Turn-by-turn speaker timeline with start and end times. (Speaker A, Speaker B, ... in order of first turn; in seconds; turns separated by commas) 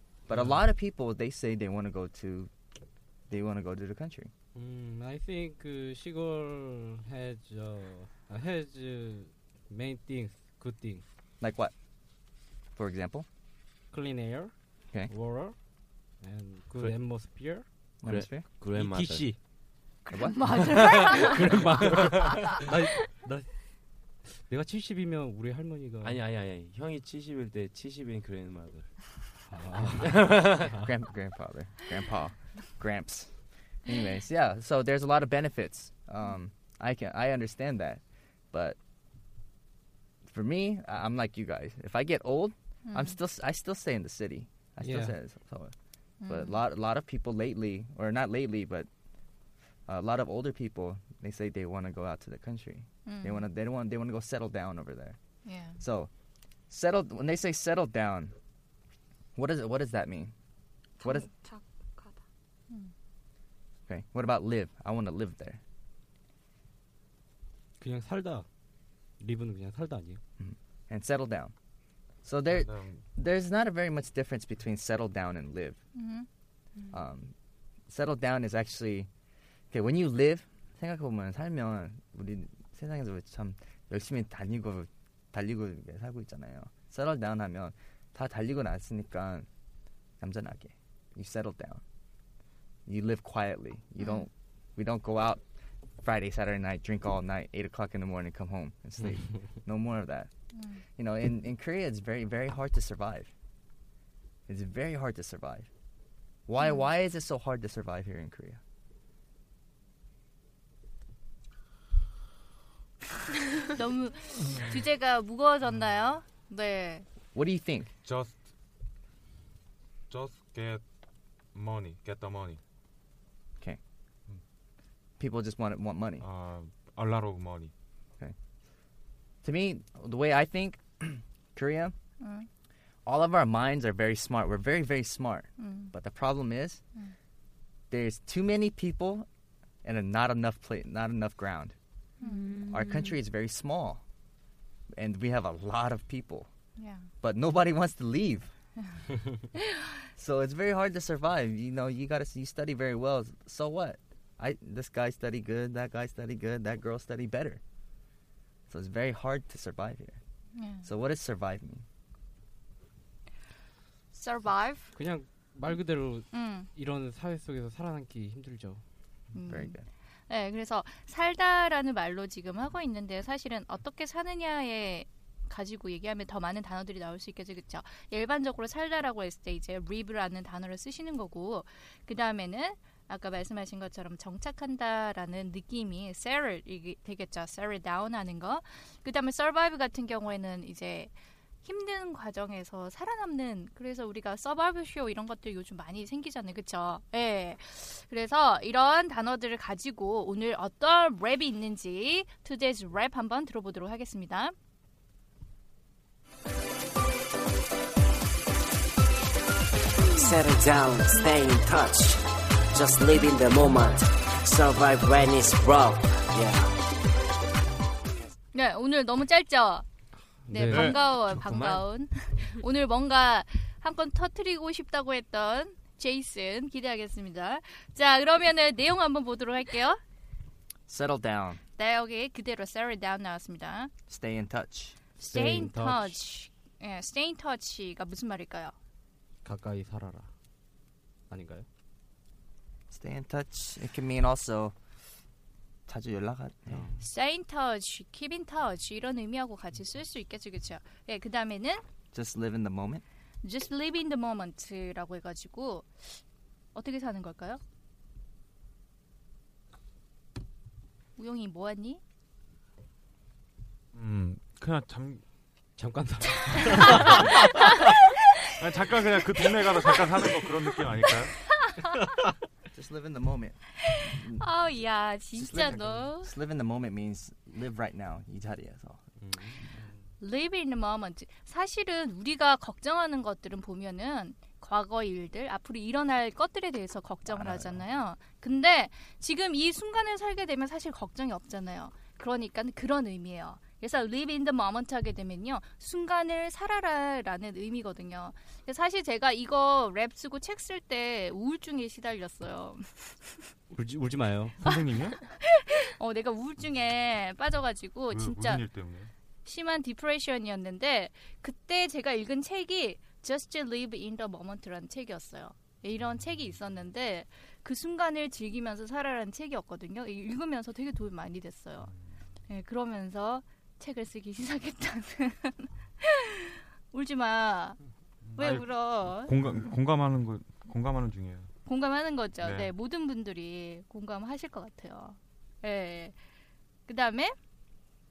Speaker A: 0.3-2.5, Speaker B: 0.3-0.7, Speaker A: 3.3-4.3, Speaker B: 4.5-11.0, Speaker A: 11.4-11.7, Speaker A: 12.8-13.3, Speaker B: 13.9-14.5, Speaker B: 15.1-15.6, Speaker B: 16.2-17.6, Speaker A: 18.0-18.5, Speaker C: 18.1-19.3, Speaker B: 18.7-19.4, Speaker D: 20.1-21.5, Speaker A: 20.1-21.1, Speaker B: 20.5-23.5, Speaker B: 24.5-26.2, Speaker C: 26.0-28.9, Speaker B: 29.5-30.9, Speaker C: 30.0-30.7, Speaker A: 30.2-33.4, Speaker A: 33.9-38.8, Speaker A: 40.2-45.7, Speaker D: 42.9-43.2, Speaker B: 44.8-45.1, Speaker D: 46.2-46.6, Speaker A: 46.3-48.9, Speaker A: 49.9-55.2, Speaker D: 53.0-53.5, Speaker D: 55.5-55.8, Speaker A: 55.8-56.1, Speaker A: 56.7-58.4, Speaker A: 59.4-60.3, Speaker E: 61.0-62.2, Speaker A: 61.0-61.3, Speaker A: 63.9-65.6, Speaker B: 67.8-68.5, Speaker B: 69.2-70.2, Speaker A: 70.4-71.5, Speaker A: 72.2-75.8, Speaker F: 72.5-73.0, Speaker D: 76.0-76.3, Speaker A: 76.9-77.3, Speaker A: 77.9-79.1, Speaker A: 79.7-89.5, Speaker A: 90.2-91.8, Speaker A: 92.9-95.4, Speaker A: 96.0-100.3, Speaker D: 100.5-100.8, Speaker A: 101.0-103.3, Speaker A: 104.5-105.7, Speaker A: 106.5-108.6, Speaker D: 113.7-117.0, Speaker A: 117.3-117.9, Speaker F: 118.0-118.4, Speaker F: 120.1-120.8, Speaker F: 121.5-122.6, Speaker A: 125.2-126.3, Speaker F: 126.2-127.7, Speaker A: 129.4-131.9, Speaker D: 132.2-132.5, Speaker A: 133.1-136.8, Speaker D: 135.6-135.9, Speaker A: 137.9-139.3, Speaker A: 139.8-141.8, Speaker E: 142.2-143.2, Speaker D: 142.2-142.7, Speaker A: 142.7-144.0, Speaker A: 144.9-146.5, Speaker D: 146.8-147.1, Speaker A: 147.2-148.5, Speaker A: 150.2-157.6, Speaker A: 158.7-160.2, Speaker D: 160.6-160.9, Speaker A: 160.8-161.8, Speaker D: 164.1-164.9, Speaker B: 164.9-168.8, Speaker D: 166.3-166.7, Speaker D: 169.3-191.1, Speaker A: 169.4-169.9, Speaker D: 191.7-204.5, Speaker G: 210.5-212.1, Speaker G: 212.8-216.5, Speaker D: 218.5-219.9, Speaker B: 220.4-220.9, Speaker D: 220.5-230.0, Speaker F: 220.6-221.1, Speaker C: 221.2-221.8, Speaker A: 230.9-231.6, Speaker D: 231.8-233.9, Speaker A: 234.1-235.0, Speaker D: 235.2-238.8, Speaker B: 235.2-236.2, Speaker B: 239.4-240.3, Speaker B: 241.3-241.7, Speaker A: 242.9-244.8, Speaker A: 245.9-246.9, Speaker B: 246.7-247.0, Speaker D: 247.0-251.8, Speaker A: 252.1-253.0, Speaker D: 253.4-256.2, Speaker D: 256.8-257.6, Speaker D: 261.2-262.0, Speaker F: 263.9-265.2, Speaker B: 265.8-267.9, Speaker F: 266.8-267.2, Speaker F: 268.6-271.4, Speaker A: 272.7-274.5, Speaker D: 274.0-276.3, Speaker A: 275.3-279.0, Speaker B: 279.2-279.6, Speaker D: 280.2-303.5, Speaker A: 287.3-287.8, Speaker B: 303.7-304.6, Speaker F: 304.6-305.2, Speaker D: 304.6-308.7, Speaker F: 308.1-309.1, Speaker D: 309.4-321.9, Speaker D: 322.5-327.8, Speaker F: 328.3-331.5, Speaker D: 328.4-329.3, Speaker D: 331.6-336.2, Speaker F: 332.4-332.7, Speaker D: 336.9-337.3